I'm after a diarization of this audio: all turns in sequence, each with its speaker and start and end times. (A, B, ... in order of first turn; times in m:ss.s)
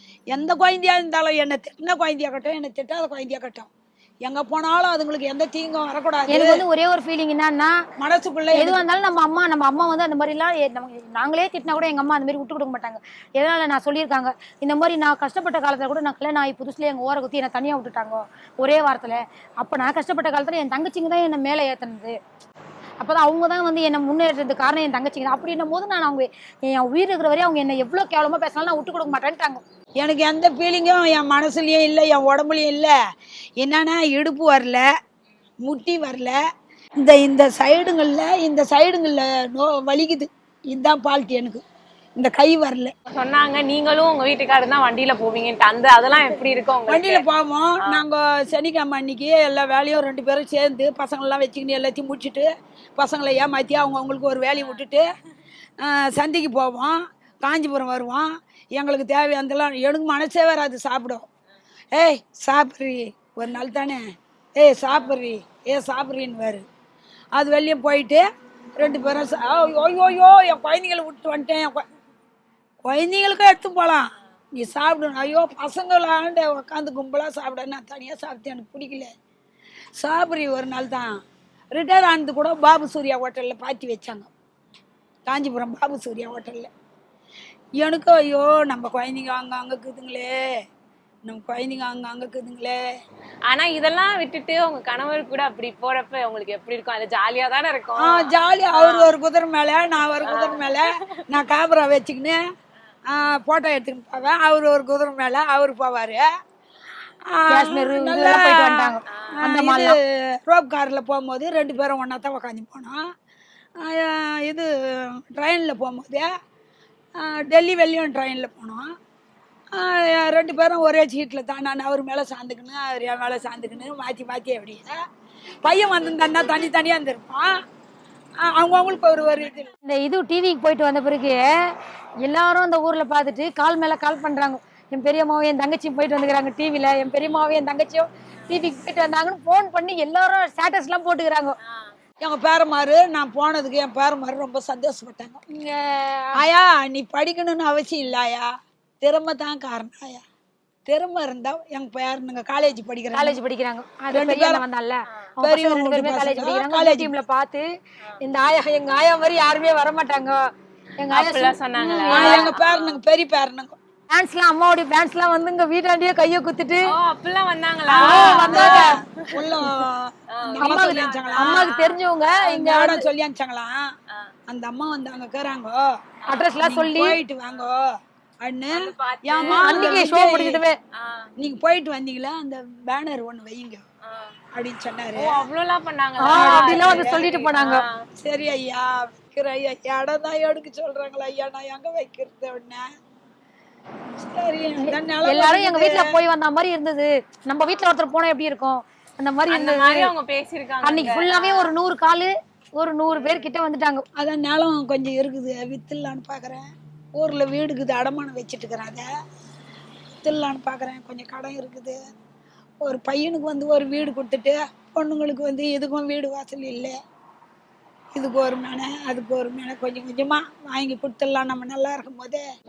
0:00.3-0:03.7 A
0:04.2-0:06.6 A
0:06.3-0:07.7 B
0:08.0-0:08.8 A
0:08.5-0:22.1 B
0:23.0-0:29.6 B
0:30.0-0:32.9 A
0:33.6-0:34.8 A
0:35.6-0:36.4 A
0:37.0-0:41.6 A
0:42.2-0:42.9 A
0:43.2-0:47.2 C
0:46.9-0:55.1 A
0:55.8-1:01.2 A
1:01.9-1:04.0 A
1:04.6-1:06.6 A
1:07.3-1:08.2 A
1:08.8-1:11.8 A
1:12.8-1:19.1 A
1:20.0-1:21.2 A
1:21.7-1:24.3 A
1:25.3-1:26.7 A
1:27.8-1:30.3 A
1:31.3-1:32.8 A
1:33.5-1:39.1 C
1:38.0-1:42.4 A
1:40.2-1:41.1 C
1:43.1-1:46.3 A
1:47.3-1:49.9 A
1:47.5-1:49.9 B
1:50.4-1:53.0 A
1:53.8-1:56.3 A
1:57.2-1:58.8 A
1:59.7-2:05.0 A
2:05.6-2:07.5 A
2:08.4-2:09.7 A
2:09.8-2:11.4 B
2:12.2-2:21.5 B
2:22.2-2:25.4 A
2:25.5-2:26.3 B
2:26.3-2:28.5 A
2:29.0-2:30.2 A
2:30.9-2:33.4 A
2:33.1-2:37.6 B
2:34.1-2:34.6 A
2:35.4-2:37.1 A
2:38.2-2:40.4 B
2:41.0-2:42.5 B
2:41.1-2:43.0 C
2:42.1-2:43.7 A
2:44.1-2:46.9 B
2:46.9-2:49.5 C
2:47.9-2:48.9 B
2:48.0-2:51.7 A
2:50.4-2:52.0 C
2:50.6-2:53.0 B
2:52.4-2:53.9 A
2:54.5-2:55.8 A
2:56.3-2:57.2 B
2:56.6-2:57.8 A
2:58.4-3:00.6 A
2:58.7-3:00.1 C
2:59.5-3:00.8 B
3:00.9-3:01.3 C
3:01.4-3:03.8 A
3:04.5-3:05.4 A
3:05.2-3:08.0 C
3:06.2-3:07.8 B
3:06.3-3:07.2 A
3:08.2-3:12.8 A
3:14.2-3:16.1 A
3:14.8-3:20.1 B
3:19.5-3:21.7 C
3:20.8-3:24.0 B
3:23.2-3:23.4 C
3:24.2-3:26.6 A
3:27.2-3:29.0 A
3:30.2-3:32.0 A
3:32.8-3:37.0 A
3:38.1-3:42.4 A